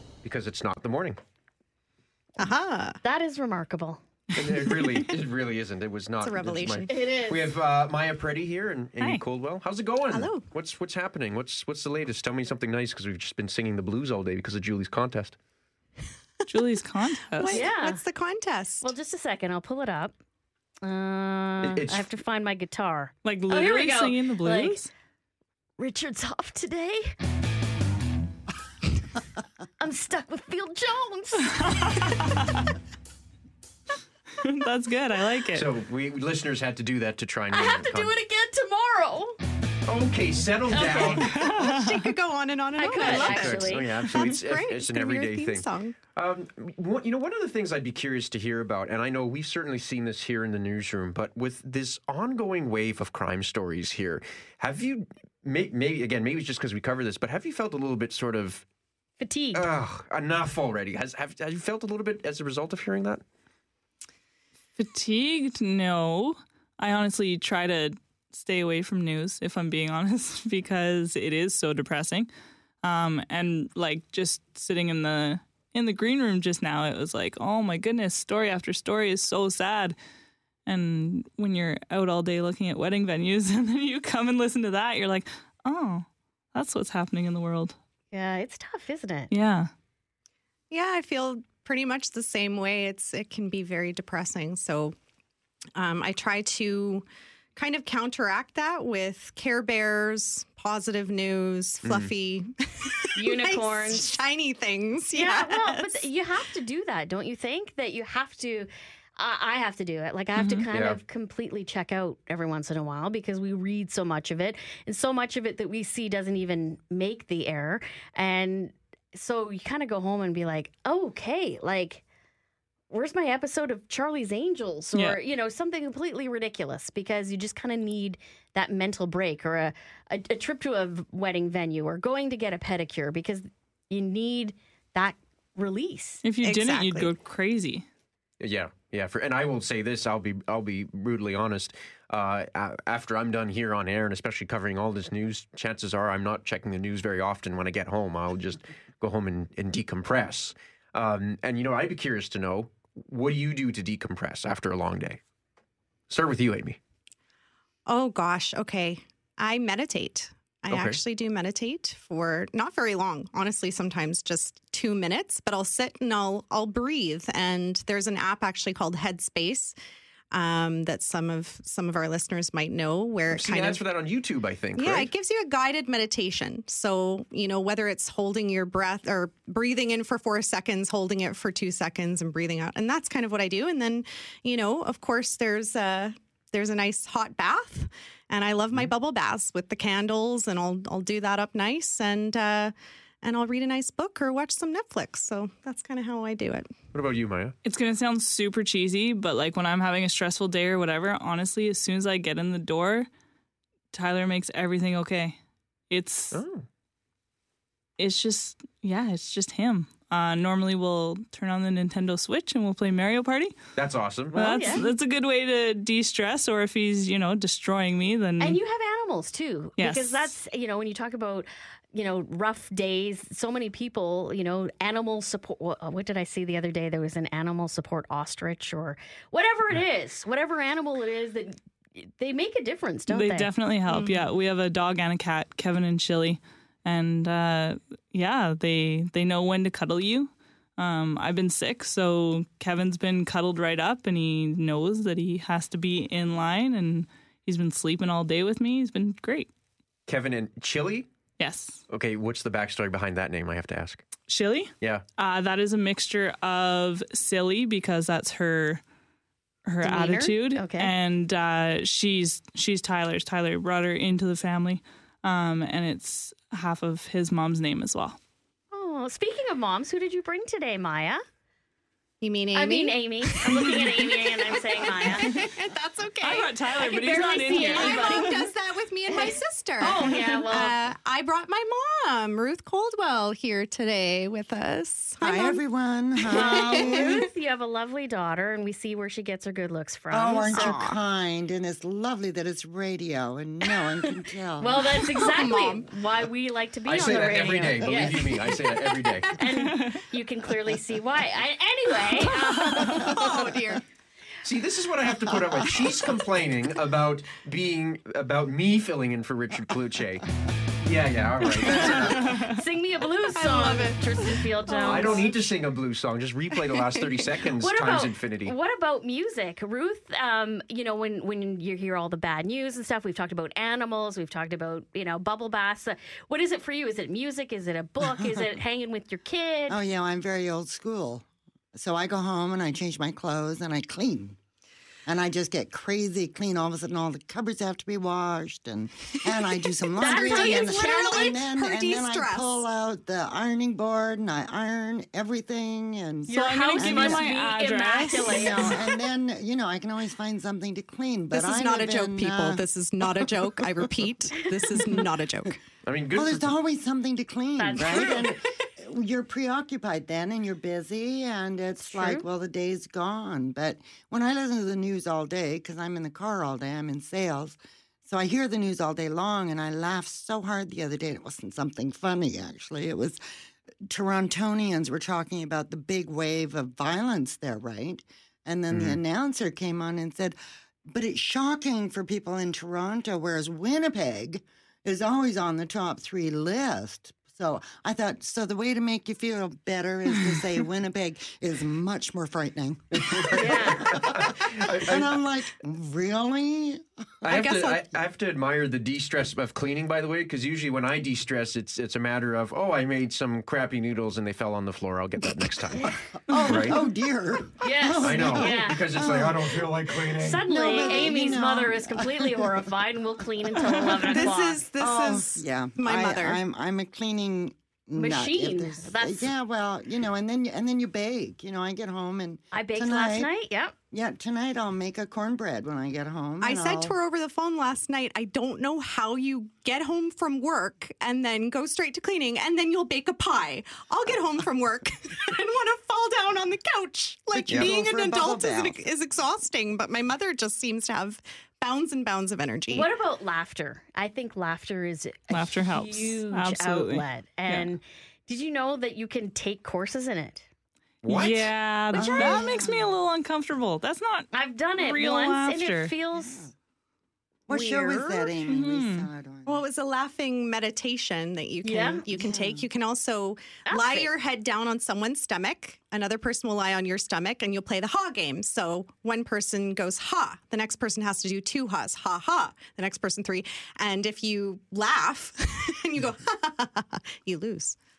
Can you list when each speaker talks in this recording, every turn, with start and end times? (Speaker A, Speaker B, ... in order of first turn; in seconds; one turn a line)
Speaker A: 0.2-1.2
Speaker B: 2.4-3.0
Speaker C: 3.0-4.0
Speaker A: 4.3-15.3
Speaker B: 4.9-5.2
Speaker B: 6.2-6.9
Speaker C: 6.9-7.5
Speaker B: 10.1-10.5
Speaker D: 16.5-17.7
Speaker B: 17.3-18.9
Speaker C: 17.5-18.0
Speaker C: 18.8-20.1
Speaker C: 20.8-24.8
Speaker A: 21.6-22.1
Speaker D: 23.2-24.9
Speaker C: 25.8-27.1
Speaker C: 29.8-31.6
Speaker D: 31.7-32.7
Speaker D: 34.4-35.7
Speaker A: 35.5-38.1
Speaker C: 37.5-39.4
Speaker A: 39.9-41.3
Speaker C: 40.7-41.3
Speaker D: 41.2-42.0
Speaker B: 41.4-46.0
Speaker C: 42.8-43.9
Speaker A: 42.9-58.6
Speaker C: 59.2-59.7
Speaker A: 59.5-63.2
Speaker D: 64.8-72.3
Speaker D: 72.8-80.0
Speaker D: 80.7-87.7
Speaker C: 88.1-89.3
Speaker D: 89.3-89.7
Speaker B: 90.7-94.9
Speaker B: 95.7-106.1
Speaker A: 101.8-102.1
Speaker C: 103.2-104.1
Speaker C: 105.1-122.0
Speaker D: 110.3-110.6
Speaker A: 110.7-111.0
Speaker C: 122.9-136.2
Speaker D: 136.2-137.8
Speaker B: 136.4-137.1
Speaker A: 138.4-155.2
Speaker A: 156.1-156.8
Speaker B: 157.9-169.7
Speaker A: 160.7-161.0
Speaker B: 170.3-173.9
Speaker A: 173.3-175.1
Speaker B: 174.7-196.7
Speaker A: 196.9-197.5
Speaker D: 197.6-203.1
Speaker D: 203.9-205.4
Speaker D: 205.9-206.4
Speaker A: 206.3-206.7
Speaker D: 208.0-213.6
Speaker A: 213.8-214.4
Speaker C: 214.3-214.9
Speaker D: 214.3-218.6
Speaker C: 218.4-233.5
Speaker D: 219.8-220.3
Speaker D: 233.1-249.5
Speaker B: 233.9-234.2
Speaker A: 250.1-251.1
Speaker D: 251.4-251.8
Speaker A: 251.9-254.0
Speaker D: 254.3-258.8
Speaker D: 259.6-268.2
Speaker C: 259.8-260.9
Speaker C: 268.7-271.2
Speaker B: 272.2-285.6
Speaker C: 272.5-275.4
Speaker D: 276.2-278.4
Speaker C: 276.9-278.5
Speaker C: 279.1-280.8
Speaker E: 285.2-287.2
Speaker B: 286.2-287.3
Speaker C: 286.3-290.8
Speaker E: 290.1-294.8
Speaker B: 290.5-290.9
Speaker C: 294.6-298.5
Speaker B: 295.0-295.9
Speaker A: 296.8-299.3
Speaker B: 297.7-299.6
Speaker C: 299.3-303.5
Speaker B: 302.2-303.8
Speaker A: 304.4-310.2
Speaker A: 310.8-312.1
Speaker B: 311.5-311.9
Speaker C: 311.9-315.3
Speaker D: 312.0-312.5
Speaker B: 313.3-314.0
Speaker B: 314.6-315.4
Speaker A: 314.8-318.5
Speaker B: 316.6-317.1
Speaker C: 317.6-329.8
Speaker E: 328.0-328.3
Speaker E: 329.7-334.4
Speaker E: 335.1-347.2
Speaker B: 339.9-342.6
Speaker C: 340.0-341.3
Speaker C: 346.3-348.8
Speaker D: 346.3-348.7
Speaker E: 348.2-352.6
Speaker B: 351.3-355.6
Speaker A: 355.8-356.5
Speaker E: 356.1-373.2
Speaker C: 357.6-358.4
Speaker C: 361.8-362.2
Speaker E: 373.9-380.4
Speaker A: 378.7-379.0
Speaker E: 380.9-397.3
Speaker C: 393.3-393.8
Speaker A: 393.3-395.1
Speaker A: 397.2-405.9
Speaker B: 397.3-397.8
Speaker E: 405.8-409.4
Speaker A: 406.4-406.8
Speaker C: 407.6-409.2
Speaker A: 408.0-411.0
Speaker C: 410.2-414.6
Speaker E: 410.5-412.5
Speaker B: 413.8-416.4
Speaker E: 414.8-423.3
Speaker C: 417.9-419.3
Speaker C: 422.5-423.7
Speaker E: 423.9-426.9
Speaker B: 426.4-442.9
Speaker E: 437.3-438.8
Speaker C: 442.7-450.4
Speaker D: 445.3-447.7
Speaker A: 451.0-452.4
Speaker D: 451.1-455.9
Speaker C: 451.9-452.7
Speaker E: 452.4-452.9
Speaker C: 454.3-456.5
Speaker E: 456.1-456.5
Speaker E: 457.5-459.6
Speaker C: 457.5-458.4
Speaker D: 458.5-459.1
Speaker B: 459.4-477.8
Speaker C: 461.6-462.1
Speaker E: 462.1-462.7
Speaker C: 463.6-464.1